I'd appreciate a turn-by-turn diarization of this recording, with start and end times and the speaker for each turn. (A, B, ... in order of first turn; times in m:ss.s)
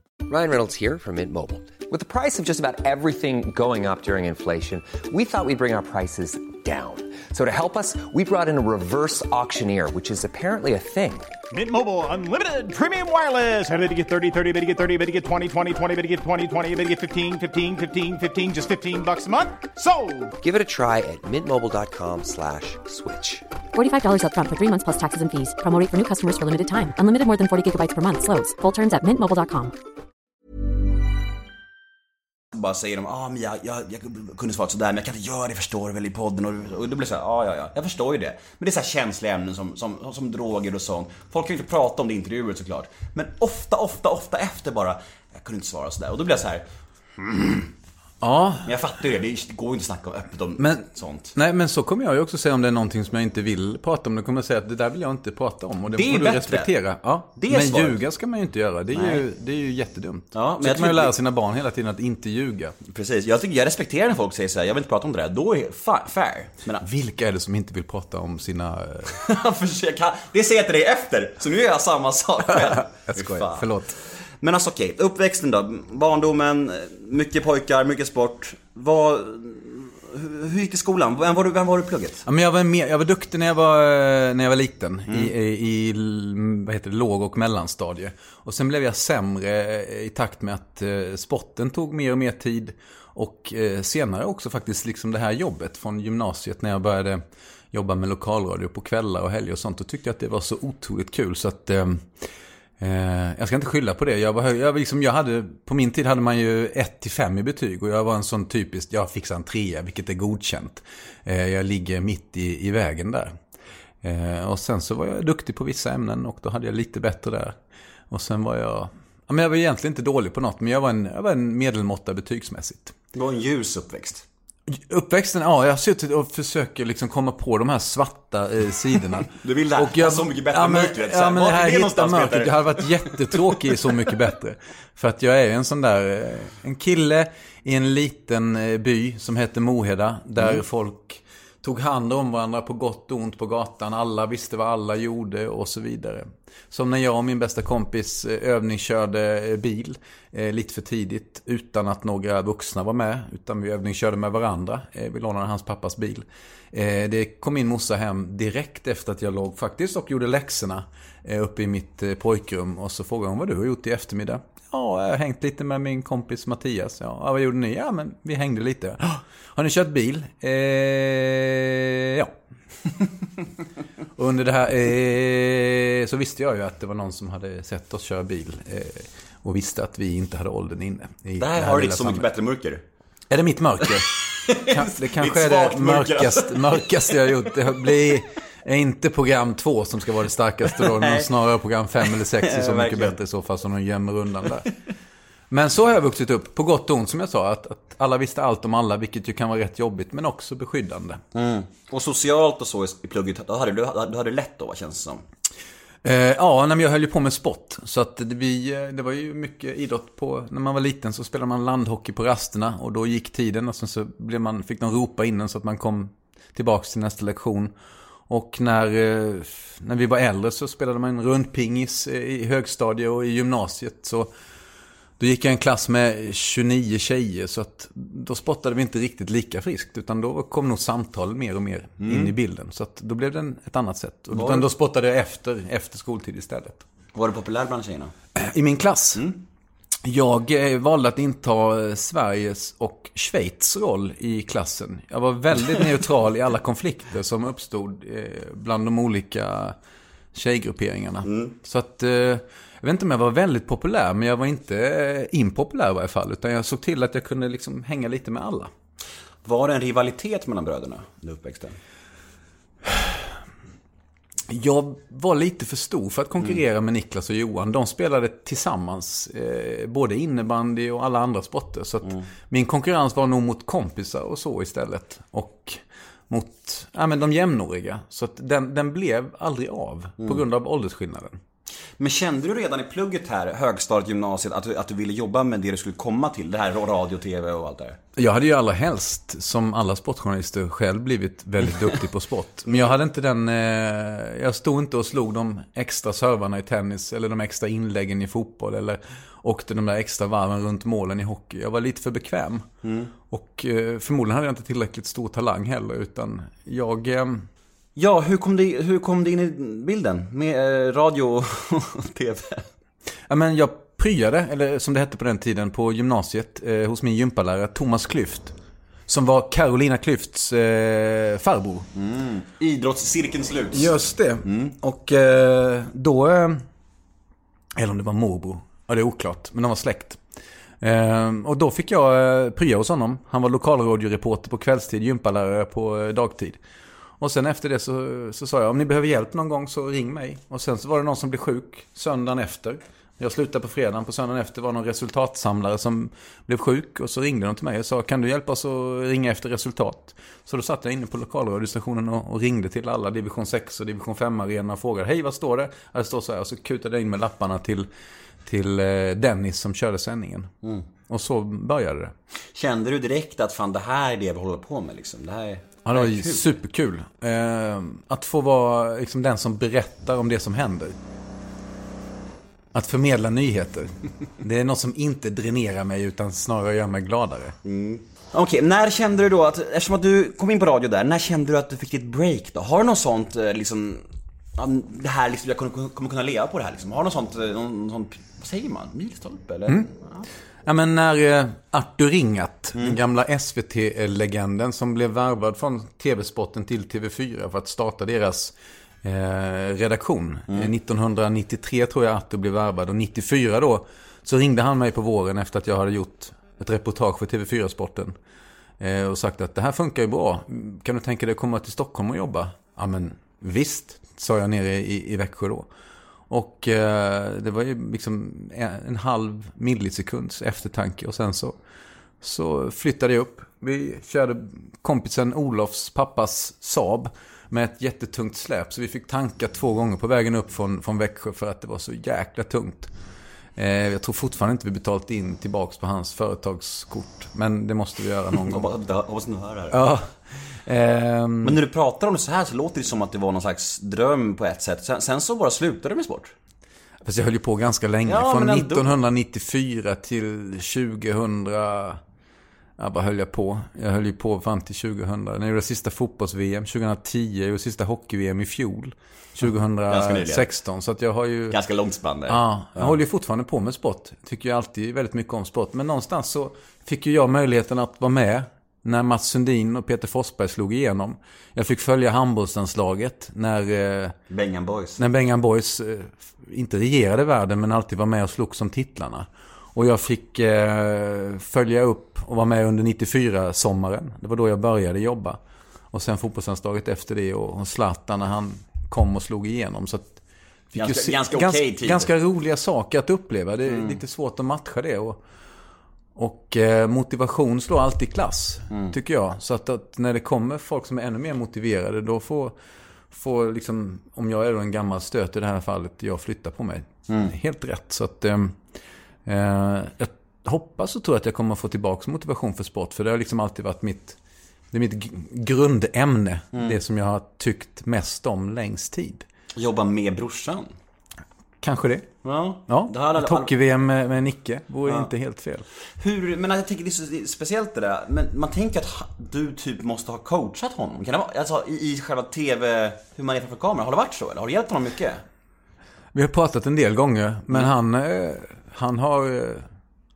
0:00.3-0:11.3 A
0:11.5-0:20.3 B
0:20.4-0:23.4 A
0:23.7-0:29.7 C
0:32.5-0:46.6 D
0:47.2-0:47.7 D
0:48.2-0:48.7 E
0:48.6-0:51.3 D
0:50.6-1:02.8 E
0:55.9-0:56.7 D
0:57.4-0:58.0 D
0:58.9-0:59.2 D
1:00.3-1:01.1 D
1:02.9-1:06.8 D
1:06.8-1:09.2 E
1:09.1-1:22.2 D
1:12.6-1:14.0 E
1:22.2-1:42.2 E
1:42.8-1:53.4 E
1:54.0-1:57.6 E
1:58.1-2:02.9 E
2:03.1-2:04.3 D
2:04.7-2:52.3 E
2:09.3-2:13.2 D
2:54.2-3:02.3 E
3:01.4-3:02.8 D
3:03.3-3:14.7 E
3:04.4-3:07.1 D
3:10.8-3:11.3 D
3:12.3-3:13.2 D
3:15.5-3:21.2 E
3:21.4-3:25.2 D
3:26.0-3:37.7 E
3:38.3-3:44.3 E
3:45.2-3:56.8 E
3:52.0-3:52.3 D
3:54.3-3:54.6 D
3:57.1-3:58.1 D
3:58.4-3:59.2 E
3:59.2-3:59.4 D
4:00.0-4:09.8 E
4:10.3-4:18.7 E
4:11.2-4:11.5 D
4:19.4-4:21.8 D
4:22.9-4:23.2 E
4:24.5-4:41.4 E
4:42.0-4:48.0 D
4:48.2-5:02.7 E
5:02.8-5:03.1 D
5:03.3-5:07.5 E
5:08.0-5:12.7 D
5:13.3-5:18.6 E
5:19.1-5:21.9 E
5:21.9-5:23.9 D
5:23.7-5:26.6 E
5:27.8-5:30.2 E
5:30.8-5:36.6 E
5:37.2-5:57.9 E
5:58.5-6:00.6 E
6:01.1-6:02.1 E
6:02.6-6:06.5 D
6:05.8-6:11.0 E
6:12.7-6:17.6 E
6:17.6-6:24.0 D
6:24.6-6:30.2 D
6:30.6-6:48.1 E
6:48.8-6:55.7 E
6:56.3-7:01.6 E
7:02.2-7:12.9 E
7:13.6-7:18.7 E
7:18.4-7:19.8 D
7:19.7-7:21.6 E
7:21.4-7:26.3 D
7:27.0-7:32.0 E
7:28.1-7:28.9 D
7:32.8-7:41.6 E
7:39.9-7:40.5 D
7:41.5-7:42.9 D
7:42.3-7:54.2 E
7:54.3-7:55.0 D
7:55.0-8:05.4 E
8:05.9-8:10.2 E
8:10.7-8:15.2 E
8:10.8-8:12.1 D
8:13.7-8:14.0 D
8:16.2-8:22.6 E
8:23.1-8:28.6 E
8:29.3-8:34.2 E
8:34.7-8:39.3 E
8:39.6-8:40.7 D
8:41.6-8:42.1 E
8:42.2-8:43.5 D
8:42.7-8:45.6 E
8:46.0-8:55.2 D
8:56.1-8:59.7 E